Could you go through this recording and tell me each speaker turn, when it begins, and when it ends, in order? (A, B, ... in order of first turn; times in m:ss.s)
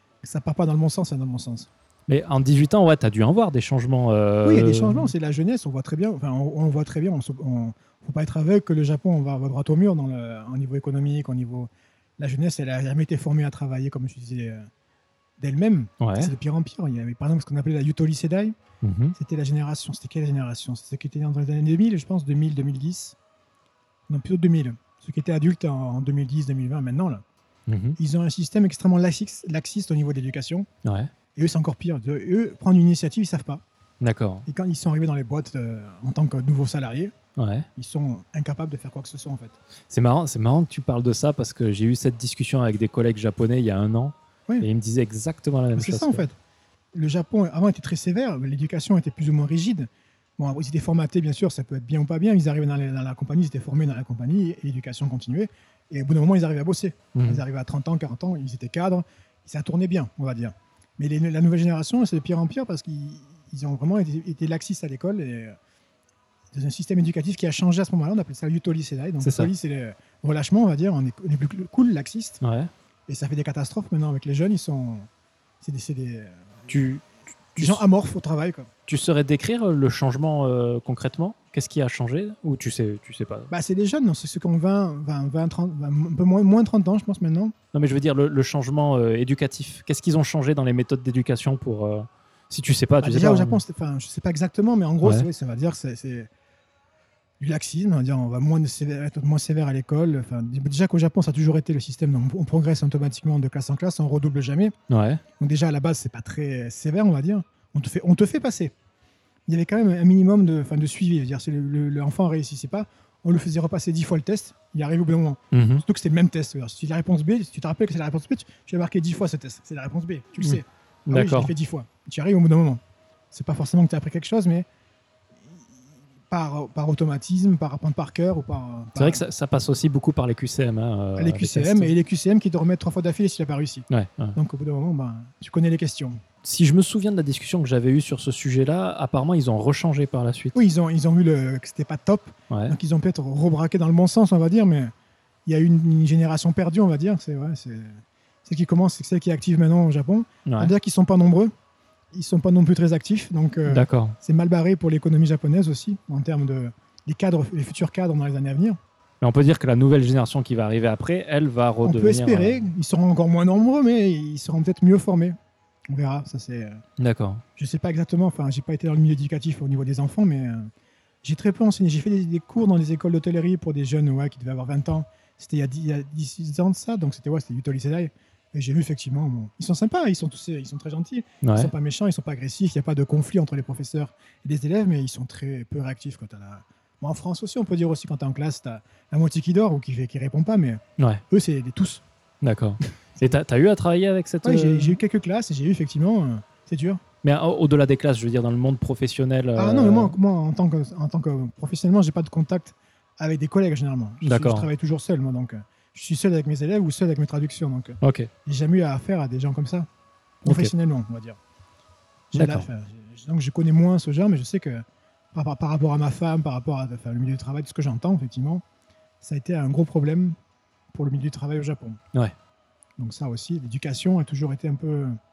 0:00.2-0:01.7 A
0:02.1-0:05.1 B
0:04.4-0:14.6 A
0:15.4-0:18.6 A
0:16.0-0:16.3 B
0:18.8-0:19.2 B
0:19.1-0:23.2 A
0:24.1-0:27.2 A
0:27.7-0:28.0 B
0:28.0-0:30.7 A
0:30.8-0:31.1 B
0:31.3-0:33.6 A
0:34.0-0:34.4 B
0:34.4-0:37.1 A
0:37.4-0:37.7 B
0:37.8-0:39.6 A
0:39.9-0:46.2 B
0:45.8-0:46.4 A
0:46.9-1:05.6 A
0:57.1-0:57.4 B
1:06.5-1:12.4 A
1:09.2-1:09.5 B
1:12.4-1:12.7 B
1:13.1-1:15.1 A
1:15.6-1:16.4 A
1:16.7-1:17.8 B
1:17.6-1:18.7 A
1:18.9-1:23.5 B
1:23.5-1:27.5 A
1:27.7-1:33.6 B
1:33.0-1:36.3 A
1:37.4-1:44.7 A
1:44.9-1:45.2 B
1:45.4-1:48.7 A
1:49.5-2:02.8 A
1:55.5-1:55.8 B
2:00.4-2:01.5 B
2:03.3-2:04.6 A
2:06.3-2:09.2 A
2:09.0-2:11.9 B
2:11.2-2:16.2 A
2:13.9-2:14.4 B
2:16.4-2:20.6 B
2:20.5-2:24.9 A
2:22.5-2:22.8 B
2:25.4-2:31.5 A
2:30.4-2:30.7 B
2:32.1-2:38.8 A
2:33.6-2:34.2 B
2:39.2-2:42.7 B
2:41.8-2:45.4 A
2:45.9-2:46.8 A
2:47.0-2:47.4 B
2:47.6-2:50.7 A
2:51.2-3:12.0 A
3:01.4-3:01.7 B
3:12.4-3:15.0 B
3:14.4-3:17.0 A
3:17.2-3:20.2 B
3:19.6-3:29.9 A
3:24.2-3:24.7 B
3:28.0-3:28.3 B
3:30.4-3:31.4 A
3:30.4-3:30.7 B
3:32.3-3:38.6 A
3:32.3-3:32.7 B
3:39.2-3:40.4 A
3:40.9-3:42.0 A
3:43.0-3:45.2 A